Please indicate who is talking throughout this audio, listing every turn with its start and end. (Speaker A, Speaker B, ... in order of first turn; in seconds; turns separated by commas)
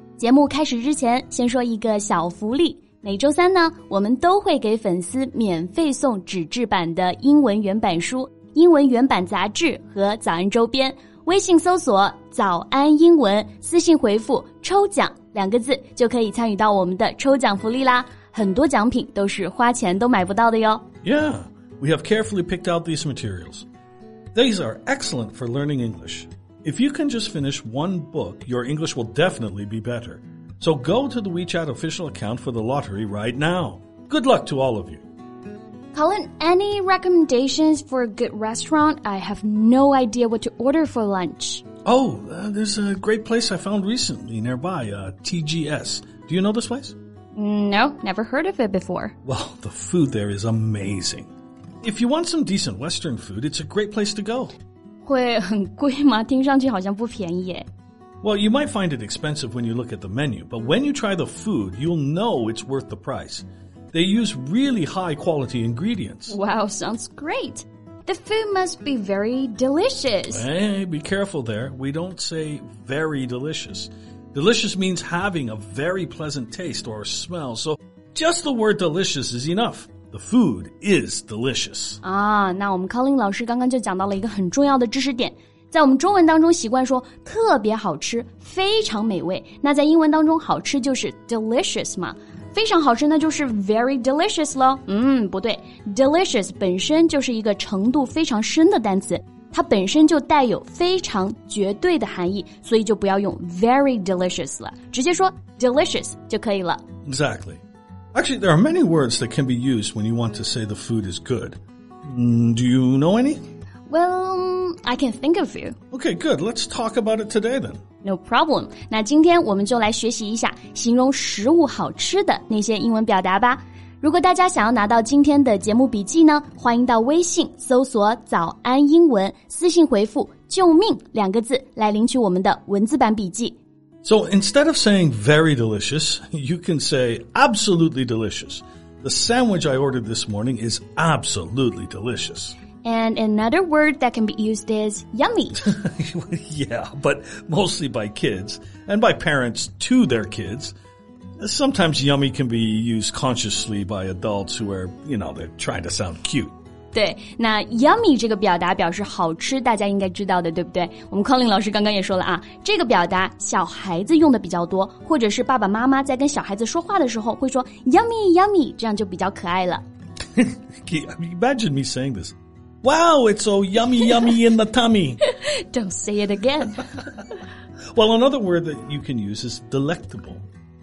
Speaker A: 0.2-20.9, Speaker B: 21.0-23.7, Speaker B: 24.3-35.0, Speaker A: 35.9-41.6, Speaker B: 41.9-47.0, Speaker A: 47.4-49.1, Speaker B: 49.2-51.3, Speaker B: 51.8-54.5, Speaker A: 55.1-57.7, Speaker B: 58.2-66.4, Speaker A: 66.3-70.5, Speaker B: 70.3-82.0, Speaker A: 82.0-106.8, Speaker B: 107.1-107.6, Speaker B: 108.1-113.4, Speaker A: 113.9-115.8, Speaker B: 115.9-117.8, Speaker A: 118.0-133.6, Speaker B: 134.0-142.6, Speaker A: 142.8-145.6, Speaker B: 145.6-150.7, Speaker B: 151.4-156.5, Speaker A: 156.9-169.8, Speaker B: 170.4-175.2, Speaker A: 175.3-177.0, Speaker B: 177.9-180.4